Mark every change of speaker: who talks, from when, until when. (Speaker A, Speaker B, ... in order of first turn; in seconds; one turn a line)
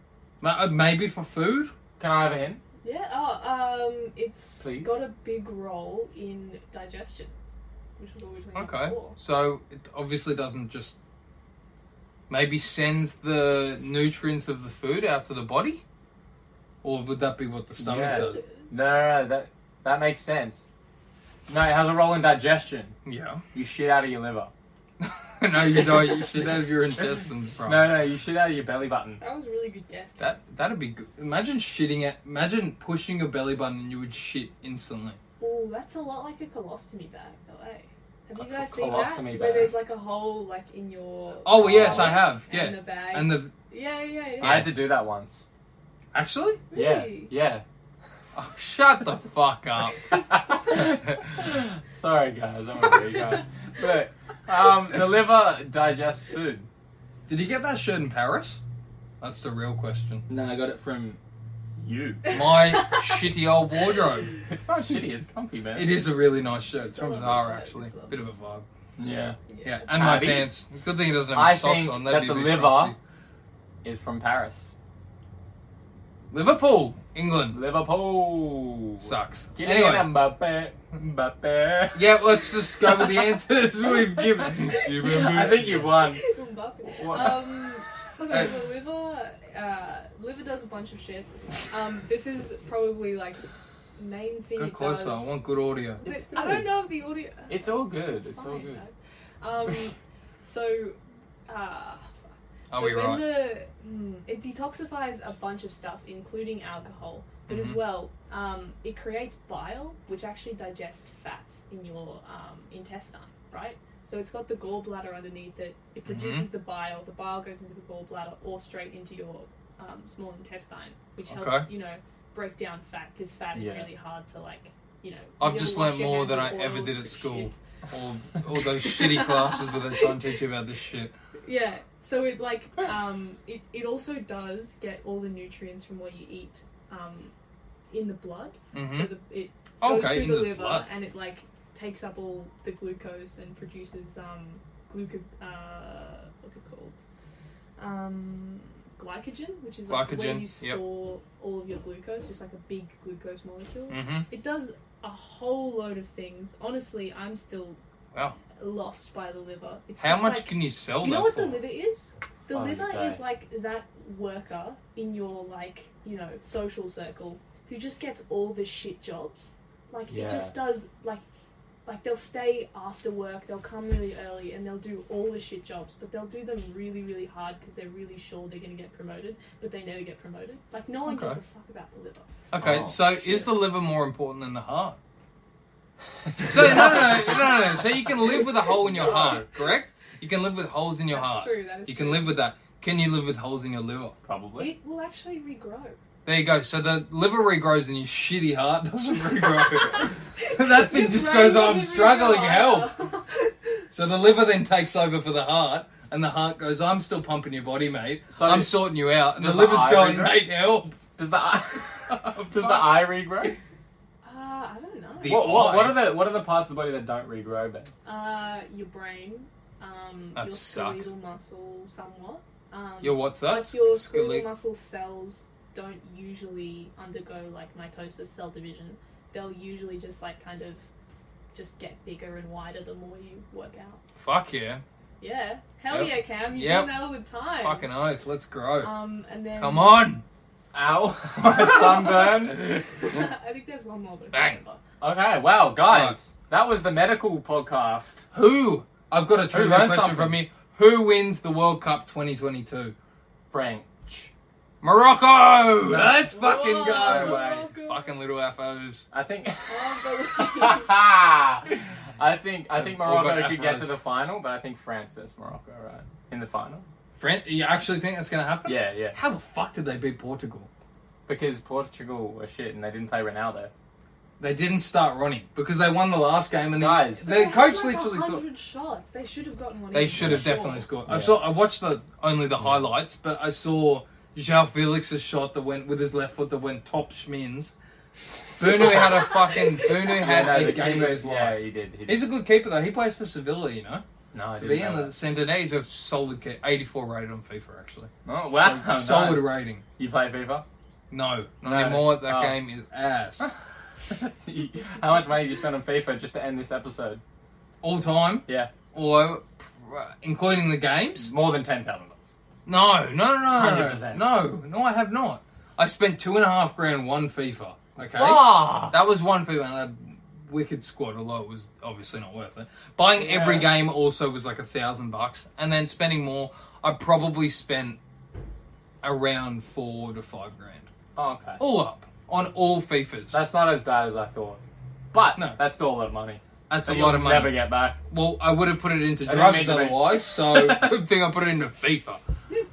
Speaker A: 0.4-1.7
Speaker B: 2.0-2.6
Speaker C: 2.8-7.3
Speaker B: 4.6-4.9
Speaker C: 8.0-9.2
Speaker A: 8.5-11.0
Speaker A: 12.3-15.8
Speaker A: 16.8-18.4
Speaker B: 17.8-20.7
Speaker C: 18.0-18.3
Speaker B: 21.5-22.9
Speaker A: 23.0-23.4
Speaker B: 23.5-24.5
Speaker A: 25.0-27.9
Speaker B: 25.9-26.2
Speaker B: 27.6-29.2
Speaker C: 29.2-30.4
Speaker A: 30.2-35.2
Speaker C: 35.4-44.7
Speaker B: 38.4-39.7
Speaker A: 41.4-43.5
Speaker B: 41.6-42.2
Speaker A: 44.4-44.7
Speaker B: 44.4-45.4
Speaker A: 46.1-46.6
Speaker C: 46.7-47.3
Speaker B: 46.7-47.6
Speaker A: 48.3-50.1
Speaker B: 50.1-56.7
Speaker A: 50.7-51.2
Speaker A: 57.3-58.6
Speaker A: 59.2-60.2
Speaker B: 60.3-61.2
Speaker B: 61.8-62.4
Speaker C: 62.3-63.2
Speaker A: 62.3-64.3
Speaker B: 64.5-65.9
Speaker A: 65.7-68.7
Speaker C: 66.8-68.2
Speaker B: 69.0-69.4
Speaker C: 69.5-70.1
Speaker A: 69.6-73.0
Speaker B: 69.9-70.5
Speaker B: 71.3-72.9
Speaker B: 73.8-74.7
Speaker A: 76.3-77.6
Speaker B: 77.5-82.2
Speaker A: 79.0-80.1
Speaker A: 81.9-85.9
Speaker B: 85.0-86.2
Speaker C: 86.2-93.4
Speaker B: 86.9-87.6
Speaker C: 94.0-95.3
Speaker A: 94.6-96.0
Speaker B: 96.0-96.7
Speaker C: 96.0-102.0
Speaker B: 97.5-98.8
Speaker A: 102.7-103.4
Speaker C: 102.7-127.6
Speaker A: 107.5-107.8
Speaker A: 116.0-116.5
Speaker A: 121.3-121.7
Speaker B: 123.5-123.9
Speaker A: 125.4-131.1
Speaker C: 128.8-130.0
Speaker C: 131.4-137.3
Speaker C: 137.9-147.0
Speaker A: 138.7-139.1
Speaker A: 139.8-140.9
Speaker C: 147.8-157.8
Speaker A: 149.9-150.8
Speaker A: 153.9-154.3
Speaker C: 158.6-171.2
Speaker A: 160.0-161.6
Speaker B: 162.5-163.2
Speaker B: 170.1-170.6
Speaker C: 171.8-182.3
Speaker A: 181.1-181.4
Speaker A: 182.5-185.0
Speaker B: 182.6-183.5
Speaker B: 186.3-187.4
Speaker A: 186.4-194.2
Speaker B: 188.9-189.4
Speaker C: 191.1-192.4
Speaker B: 194.2-194.7
Speaker C: 194.6-196.0
Speaker A: 196.2-202.9
Speaker C: 199.4-203.5
Speaker A: 203.9-211.0
Speaker B: 208.3-210.4
Speaker B: 211.2-213.6
Speaker A: 212.1-213.5
Speaker C: 214.2-215.7
Speaker A: 215.2-216.1
Speaker B: 215.2-217.9
Speaker C: 218.0-230.8
Speaker A: 220.3-221.1
Speaker A: 223.0-224.4
Speaker C: 231.5-234.0
Speaker A: 234.2-234.8
Speaker C: 235.2-237.8
Speaker A: 235.9-237.1
Speaker A: 237.6-238.9
Speaker C: 238.8-240.1
Speaker A: 239.5-240.2
Speaker B: 240.7-242.7
Speaker C: 241.6-244.8
Speaker A: 244.3-244.6
Speaker B: 245.0-248.2
Speaker A: 245.9-246.2
Speaker A: 248.3-252.9
Speaker B: 249.5-250.3
Speaker B: 253.5-254.3
Speaker A: 254.8-259.1
Speaker B: 255.8-256.2
Speaker C: 256.3-258.1
Speaker B: 256.9-257.7
Speaker B: 259.1-266.9
Speaker C: 259.7-261.0
Speaker A: 262.8-263.9
Speaker A: 267.1-270.7
Speaker B: 268.6-269.2
Speaker B: 271.3-273.7
Speaker A: 274.4-278.4
Speaker B: 276.8-277.3
Speaker C: 277.2-280.9
Speaker A: 279.9-287.7
Speaker B: 280.2-280.5
Speaker B: 281.1-281.4
Speaker A: 288.6-294.0
Speaker C: 289.0-290.2
Speaker B: 290.1-292.2
Speaker B: 294.3-295.1
Speaker A: 294.6-299.8
Speaker B: 298.2-300.6
Speaker A: 301.1-303.4
Speaker B: 301.6-302.6
Speaker B: 304.1-307.2
Speaker A: 307.8-311.3
Speaker B: 308.4-308.7
Speaker B: 311.2-312.3
Speaker A: 312.6-328.0
Speaker B: 313.5-314.2
Speaker B: 317.9-318.9
Speaker B: 323.1-323.7
Speaker A: 329.0-330.9
Speaker B: 331.1-331.6
Speaker A: 331.6-333.4
Speaker B: 333.3-334.6
Speaker B: 335.1-338.0
Speaker A: 336.7-342.2
Speaker B: 339.2-340.9